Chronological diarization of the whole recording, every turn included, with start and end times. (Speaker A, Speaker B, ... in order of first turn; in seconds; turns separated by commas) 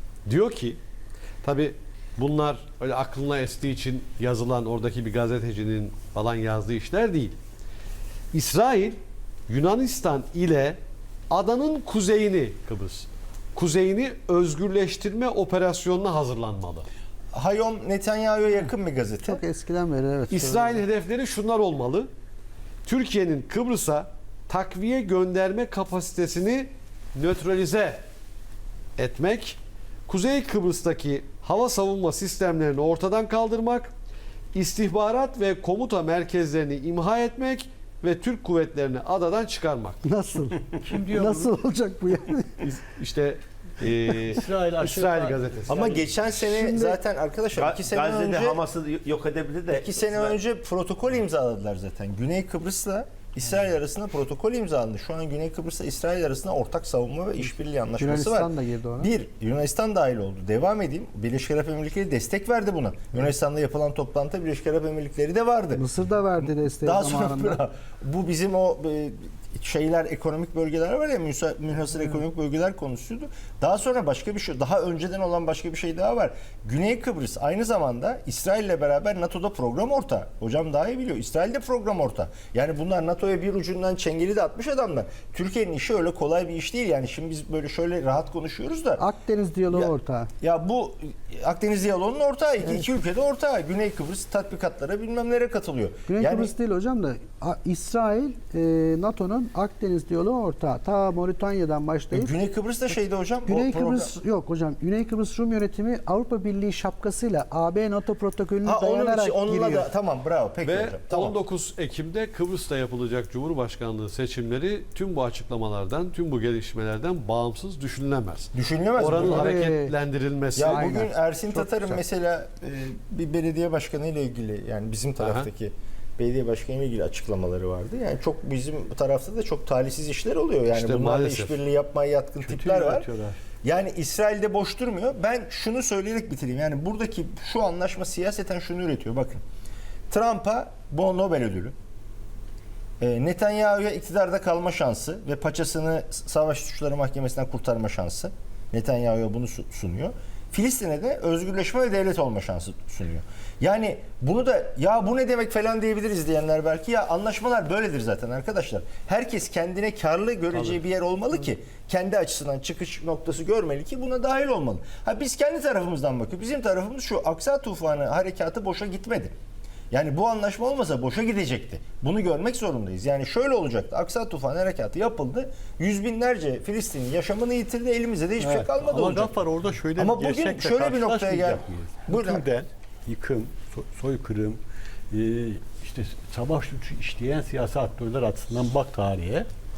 Speaker A: 0.2-0.8, Speaker A: 1.4-7.4, Speaker A: 8.3-10.8, Speaker A: 11.3-16.9, Speaker B: 17.3-19.4, Speaker C: 19.2-20.8, Speaker A: 20.3-22.1, Speaker A: 22.8-28.0, Speaker A: 29.0-33.9, Speaker A: 34.5-40.1, Speaker C: 40.0-42.6, Speaker D: 40.8-41.5, Speaker A: 42.6-46.0, Speaker D: 44.3-45.5, Speaker B: 45.7-48.6, Speaker C: 46.5-47.0, Speaker E: 47.5-50.4, Speaker B: 49.7-65.8, Speaker C: 58.0-59.1, Speaker C: 65.8-67.6, Speaker B: 66.4-89.0, Speaker C: 89.0-90.3, Speaker B: 89.7-96.5, Speaker C: 96.1-102.3, Speaker B: 102.1-104.1, Speaker C: 103.5-109.9, Speaker B: 108.6-111.4, Speaker A: 110.6-121.0, Speaker B: 118.5-119.6, Speaker C: 119.2-119.9, Speaker C: 120.6-122.0, Speaker B: 120.6-133.1, Speaker A: 125.2-125.5, Speaker A: 130.7-131.6, Speaker D: 132.4-133.4, Speaker B: 133.6-139.4, Speaker B: 140.1-141.7, Speaker B: 143.0-169.3, Speaker A: 160.5-160.8, Speaker B: 169.9-179.3, Speaker D: 178.4-184.6, Speaker B: 179.9-182.4, Speaker D: 185.1-189.5